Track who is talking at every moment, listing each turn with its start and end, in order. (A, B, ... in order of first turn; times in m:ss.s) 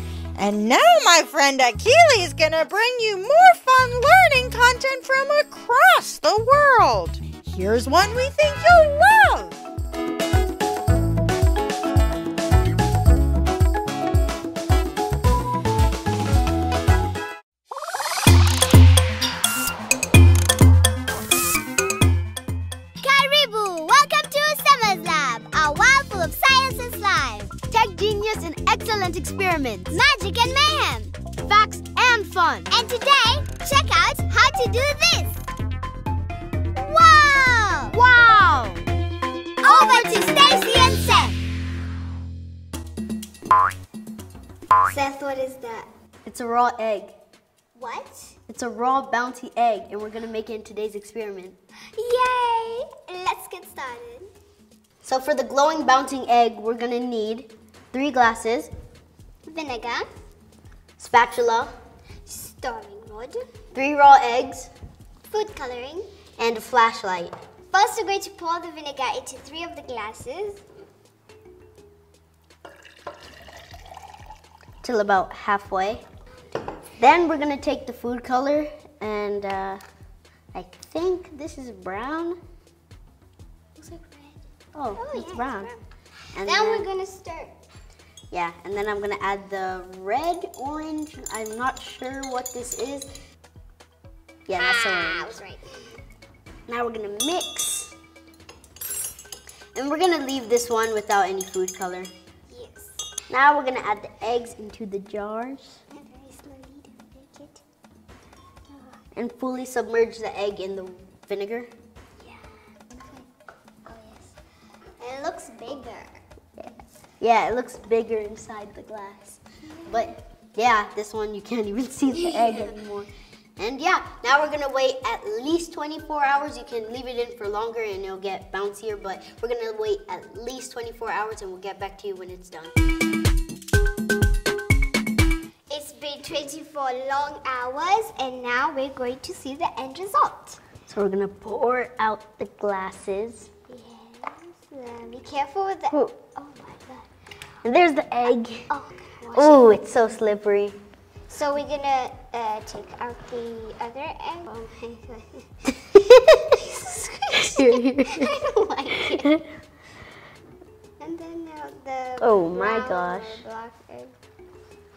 0:00.4-0:09.6 A
0:23.0-0:27.6 B
0:27.7-0:30.0 C
0:29.9-0:31.2 B
0:31.4-0:32.7 C
0:32.7-0:35.4 B
0:36.8-0:38.0 B
0:37.9-0:38.8 C
0:39.6-0:41.4 B
0:44.8-0:45.9 B
0:46.2-0:47.1 C
0:47.8-0:48.4 B
0:48.5-0:51.6 C
0:51.9-0:54.3 B
0:55.0-0:58.7 C
0:59.5-1:00.1 B
1:01.0-1:01.7 C
1:02.2-1:03.5 B
1:03.7-1:04.7 C
1:05.3-1:06.1 B
1:06.4-1:07.4 C
1:07.7-1:10.6 B
1:14.8-1:16.0 C
1:17.0-1:19.8 C
1:20.5-1:22.4 C
1:23.8-1:24.4 B
1:24.7-1:25.7 C
1:24.9-1:25.8 B
1:26.3-1:26.9 C
1:26.4-1:27.5 B
1:28.3-1:33.1 C
1:34.5-1:35.4 C
1:34.5-1:36.0 B
1:36.7-1:37.9 C
1:39.8-1:42.1 C
1:42.5-1:43.1 B
1:43.3-1:45.8 C
1:45.9-1:47.6 B
1:48.7-1:49.0 B
1:49.2-1:51.7 C
1:52.2-1:54.3 B
1:55.0-1:56.2 B
1:57.2-2:12.7 C
1:59.7-2:00.1 B
2:02.1-2:02.7 B
2:15.7-2:20.6 B
2:20.9-2:23.5 C
2:23.7-2:27.1 B
2:27.6-2:28.7 C
2:28.7-2:29.7 B
2:29.3-2:30.8 C
2:31.3-2:35.5 B
2:36.1-2:36.6 C
2:36.5-2:39.3 B
2:37.3-2:38.3 C
2:41.0-2:44.1 B
2:42.2-2:43.4 C